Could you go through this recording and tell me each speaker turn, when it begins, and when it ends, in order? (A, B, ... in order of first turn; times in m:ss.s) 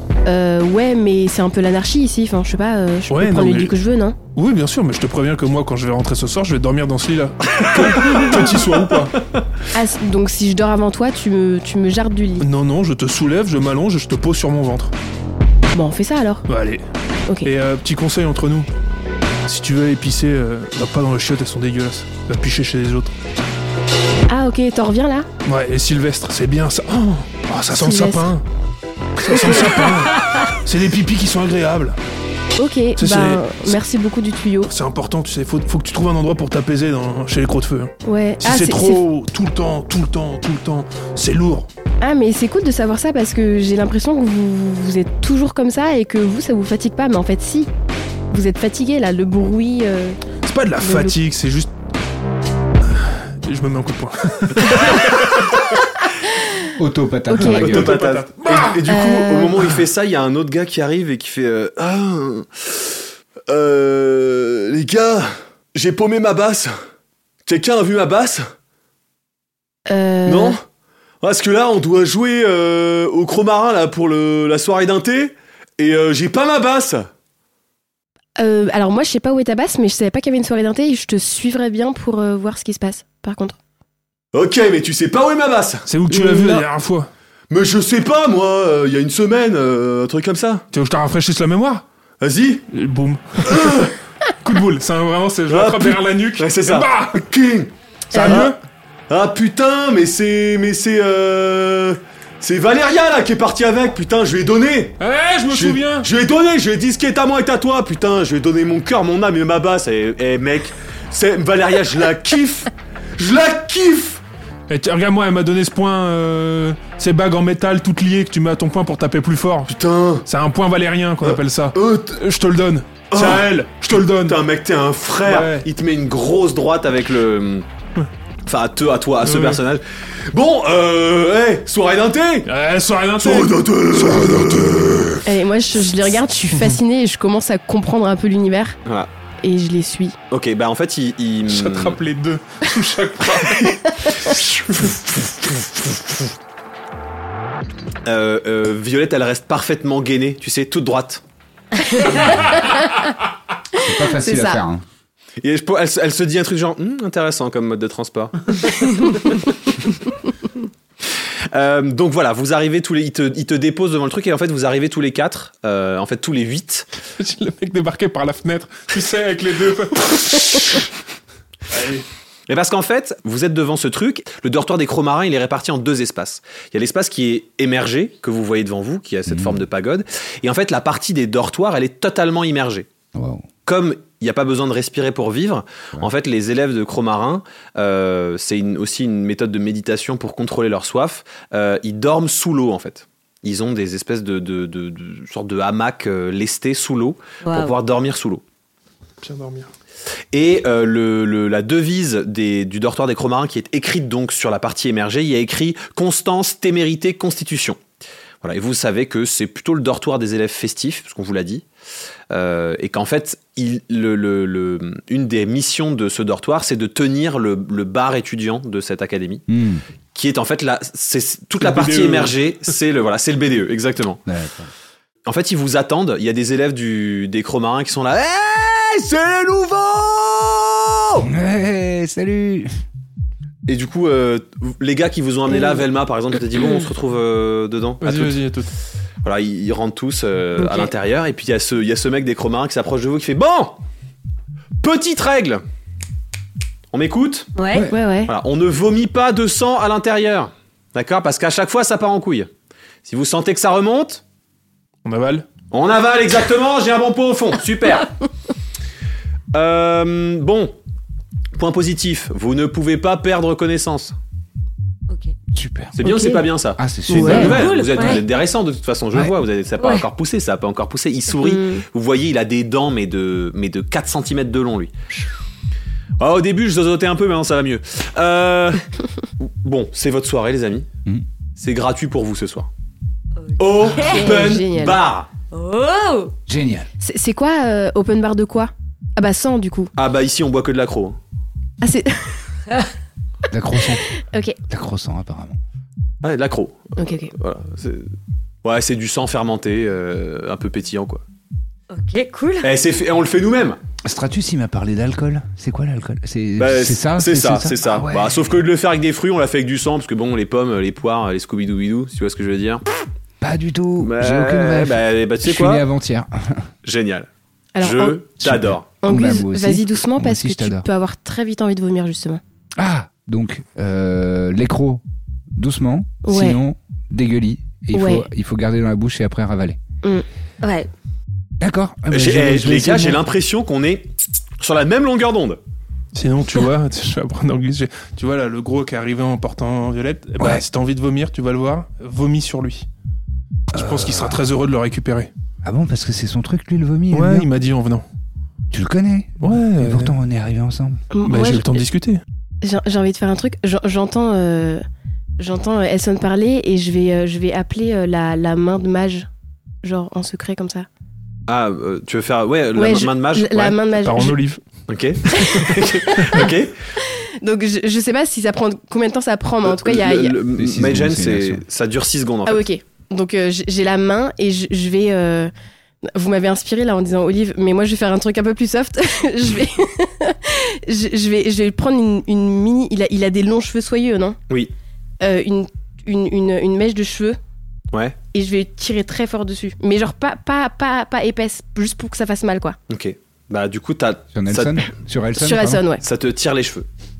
0:00.2-0:04.2 A
0:03.1-0:03.7 B
0:04.4-0:09.2 B
0:07.7-0:08.5 C
0:09.7-0:12.5 A
0:12.4-0:14.9 B
0:15.7-0:16.4 A
0:16.5-0:16.8 B
0:17.4-0:18.7 B
0:19.4-0:23.2 B
0:24.3-0:25.3 A
0:25.4-0:28.4 B
0:27.7-0:28.3 A
0:29.2-0:32.0 B
0:32.6-0:34.7 A
0:33.0-0:33.7 B
0:34.6-0:41.7 B
0:38.0-0:39.0 A
0:42.0-0:47.7 A
0:48.3-0:50.2 A
0:50.4-0:51.7 B
0:50.8-0:51.2 A
0:52.9-0:55.6 B
0:56.8-0:58.0 D
0:57.3-0:57.6 A
0:57.5-1:06.8 C
0:57.6-0:58.8 B
0:58.9-0:59.7 A
1:07.4-1:08.5 C
1:09.9-1:10.6 A
1:10.2-1:10.6 C
1:11.2-1:17.1 C
1:18.4-1:23.6 A
1:24.3-1:26.6 C
1:25.9-1:27.1 B
1:27.5-1:30.6 C
1:30.7-1:31.8 B
1:32.2-1:32.7 C
1:32.7-1:33.9 B
1:33.4-1:33.9 C
1:34.4-1:37.2 B
1:35.5-1:38.5 C
1:38.1-1:38.6 B
1:38.1-1:38.4 A
1:39.1-1:54.2 C
1:45.0-1:46.1 B
1:54.7-1:59.7 B
1:59.7-2:00.3 C
2:00.2-2:04.4 B
2:01.2-2:02.1 C
2:03.1-2:07.6 C
2:05.2-2:05.6 B
2:08.4-2:12.5 C
2:09.2-2:09.6 B
2:12.4-2:15.0 B
2:13.2-2:15.2 C
2:15.2-2:18.8 A
2:19.4-2:20.2 A
2:20.3-2:22.0 C
2:21.5-2:25.0 B
2:28.0-2:31.2 C
2:33.8-2:34.8 D
2:34.2-2:34.6 A
2:35.4-2:39.2 C
2:41.5-2:46.9 C
2:47.2-2:50.9 B
2:51.7-2:52.0 B
2:52.5-3:02.9 C
2:59.3-2:59.6 D
3:03.1-3:03.5 D
3:03.6-3:18.4 C
3:17.4-3:17.7 E
3:19.2-3:19.7 B
3:20.3-3:27.8 C
3:28.4-3:31.6 C
3:32.3-3:39.4 C
3:39.5-3:39.8 D
3:40.1-3:44.2 C
3:41.6-3:42.3 B
3:44.2-3:44.7 D
3:45.2-3:51.3 C
3:51.2-3:52.7 D
3:53.7-3:58.4 C
3:58.0-3:58.7 B
3:59.2-4:03.8 C
4:00.6-4:00.9 E
4:04.8-4:05.6 C
4:06.9-4:07.5 C
4:07.5-4:07.9 E
4:07.9-4:08.3 A
4:08.3-4:12.5 C
4:13.0-4:14.2 C
4:15.0-4:15.5 B
4:15.7-4:18.1 C
4:19.5-4:20.7 C
4:21.6-4:24.2 C
4:25.1-4:25.3 E
4:25.5-4:26.0 D
4:26.0-4:34.9 C
4:26.0-4:26.4 A
4:26.8-4:27.8 D
4:27.1-4:27.5 B
4:27.1-4:27.5 A
4:27.4-4:28.2 E
4:29.8-4:30.0 E
4:31.4-4:31.8 A
4:36.2-4:38.8 C
4:39.4-4:40.9 C
4:41.6-4:42.7 C
4:43.4-4:44.4 E
4:43.6-4:45.3 C
4:43.9-4:45.0 A
4:45.5-4:46.3 E
4:46.5-4:46.9 D
4:47.0-4:49.9 A
4:50.0-4:51.2 C
4:51.8-4:52.4 A
4:53.5-4:54.1 D
4:54.2-4:54.6 A
4:54.7-4:55.6 D
4:56.2-4:58.1 C
4:57.0-4:57.3 A
4:58.6-5:01.2 C
5:01.9-5:02.7 E
5:02.6-5:03.8 C
5:04.0-5:08.6 D
5:06.6-5:12.8 C
5:13.4-5:16.7 D
5:14.0-5:15.8 C
5:16.8-5:17.3 C
5:17.8-5:18.2 A
5:17.8-5:18.9 C
5:18.4-5:20.9 D
5:19.0-5:22.4 A
5:22.8-5:25.0 D
5:25.6-5:29.8 D
5:26.2-5:26.6 A
5:27.9-5:28.2 A
5:30.6-5:30.9 E
5:31.6-5:33.2 D
5:32.1-5:34.1 C
5:34.6-5:35.6 C
5:36.1-5:42.9 B
5:40.4-5:40.6 D
5:43.7-5:45.3 B
5:43.7-5:44.4 D
5:45.6-5:47.5 D
5:47.1-5:48.0 B
5:48.7-5:51.0 D
5:49.4-5:50.1 B
5:51.1-5:51.8 A
5:51.2-5:52.2 B
5:52.6-5:54.8 A
5:55.4-5:59.3 A
5:59.8-6:00.9 A
6:01.5-6:03.8 C
6:02.7-6:04.4 A
6:04.0-6:04.6 B
6:04.9-6:06.8 C
6:05.2-6:06.5 B
6:07.0-6:10.4 A
6:09.6-6:12.6 C
6:10.5-6:11.6 D
6:12.4-6:15.5 A
6:16.0-6:24.4 A
6:25.2-6:27.4 A
6:27.9-6:28.2 C
6:28.3-6:32.8 A
6:32.9-6:34.9 C
6:34.3-6:35.8 D
6:35.4-6:36.0 A
6:36.0-6:36.8 C